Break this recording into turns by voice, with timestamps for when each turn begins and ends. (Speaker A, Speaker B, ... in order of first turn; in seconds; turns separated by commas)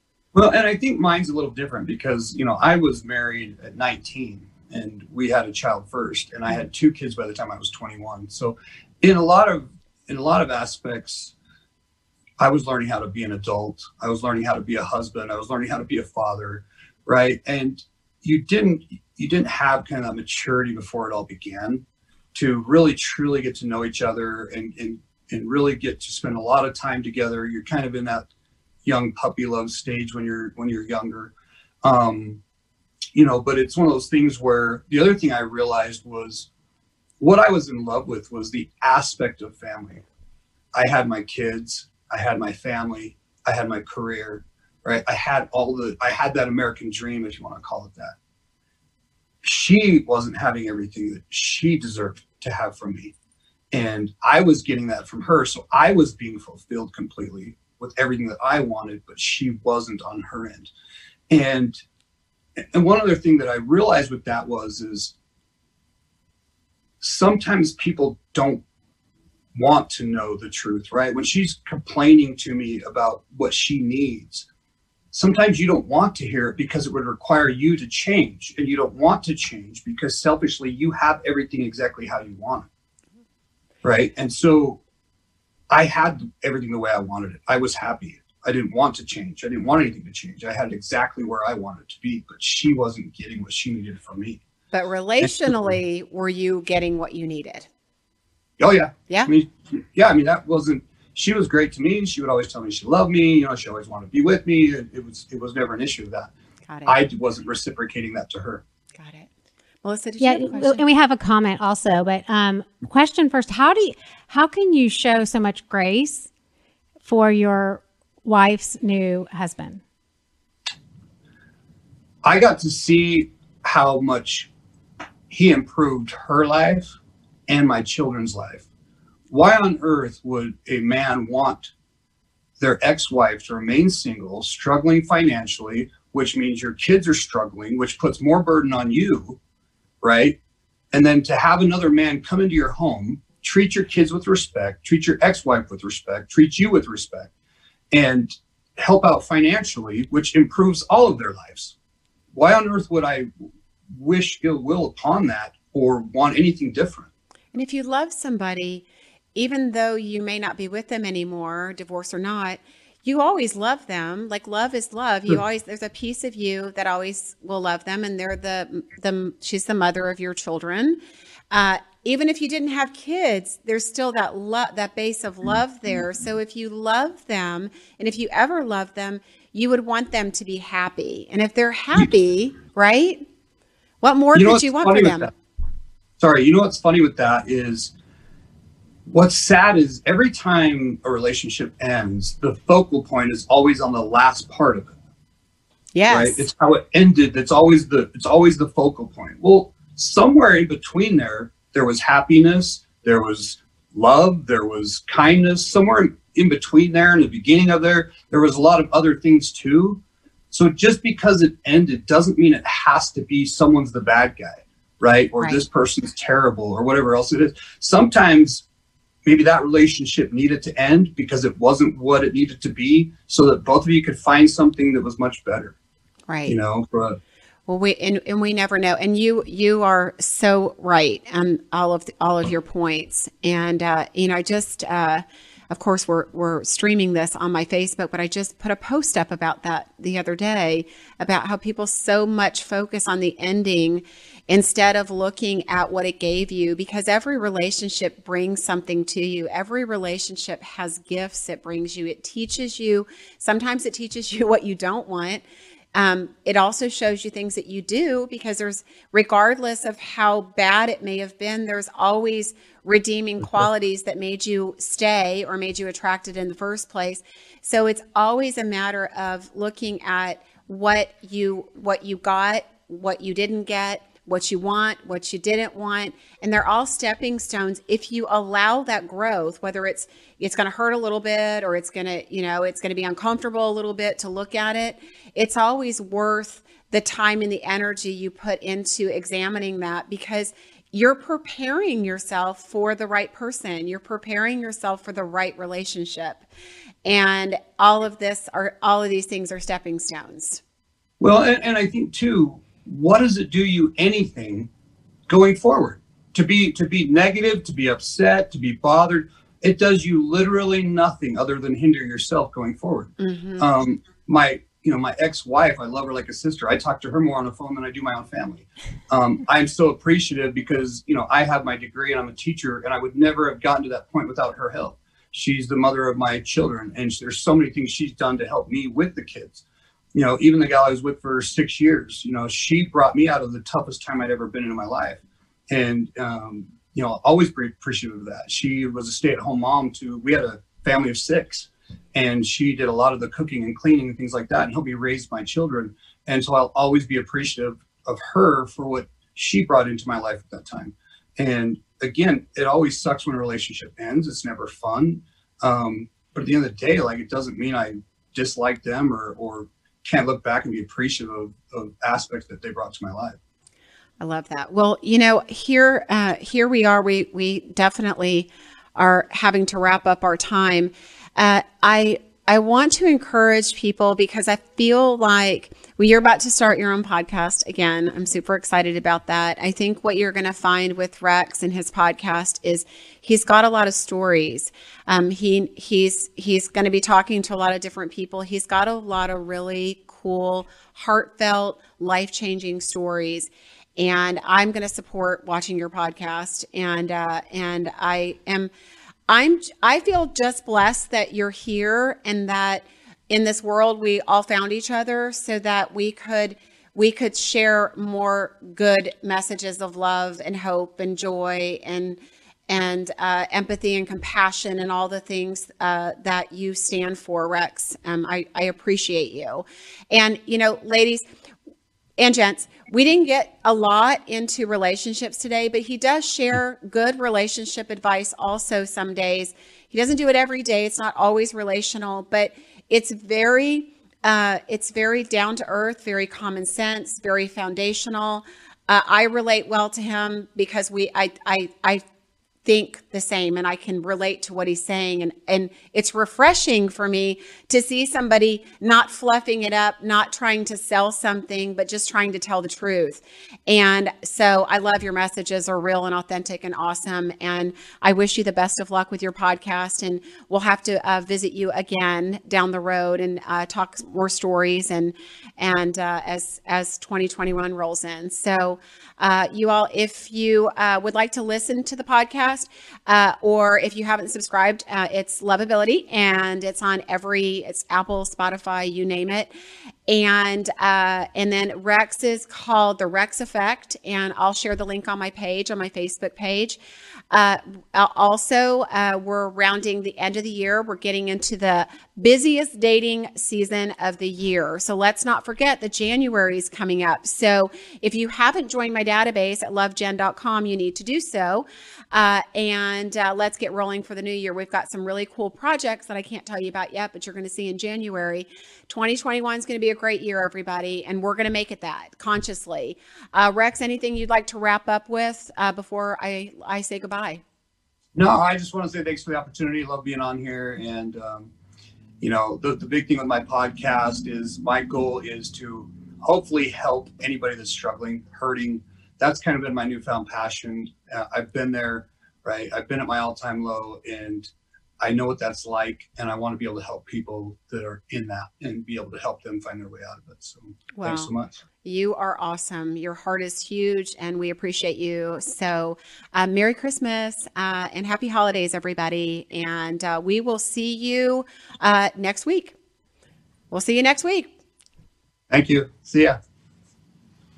Speaker A: 0.3-11.3, Speaker A: 12.4-21.8, Speaker A: 22.4-28.3, Speaker A: 28.9-31.3, Speaker A: 31.8-32.4, Speaker A: 33.1-36.5, Speaker A: 37.2-40.0, Speaker A: 40.8-48.1, Speaker A: 49.4-53.1, Speaker A: 53.7-60.7, Speaker A: 61.3-61.8, Speaker A: 62.7-65.1, Speaker A: 67.0-68.6, Speaker A: 69.5-74.5, Speaker A: 75.1-82.7, Speaker A: 83.8-84.8, Speaker A: 85.7-94.4, Speaker B: 94.7-97.7, Speaker A: 98.6-106.3, Speaker B: 106.7-107.0, Speaker A: 106.8-108.6, Speaker B: 109.0-109.3, Speaker B: 109.8-110.8, Speaker C: 110.2-116.3, Speaker C: 117.0-119.8, Speaker A: 122.2-124.5, Speaker A: 125.3-126.9, Speaker A: 127.5-128.6, Speaker A: 129.3-131.7, Speaker A: 132.6-139.4, Speaker A: 140.0-140.4, Speaker A: 140.9-147.3, Speaker A: 147.9-151.8, Speaker A: 152.3-153.3, Speaker A: 153.9-157.1, Speaker B: 157.5-171.0, Speaker B: 171.5-183.2, Speaker B: 184.0-185.3, Speaker A: 184.3-185.3, Speaker A: 186.2-187.9, Speaker A: 189.1-194.9, Speaker B: 195.9-196.5, Speaker A: 196.1-218.6, Speaker A: 219.2-225.8, Speaker B: 226.3-226.6, Speaker A: 226.4-227.2, Speaker B: 227.7-255.4, Speaker B: 255.9-296.4, Speaker B: 297.1-300.6, Speaker A: 301.2-304.7, Speaker A: 305.3-363.4, Speaker B: 313.2-313.7, Speaker B: 364.2-398.7, Speaker B: 399.3-421.2, Speaker B: 422.2-442.0, Speaker B: 442.6-479.5, Speaker B: 480.1-486.8, Speaker B: 487.3-517.4, Speaker A: 518.1-521.5, Speaker A: 522.2-534.5, Speaker A: 535.0-541.6, Speaker B: 541.0-541.3, Speaker B: 541.8-552.8, Speaker B: 553.7-554.5, Speaker A: 555.5-556.4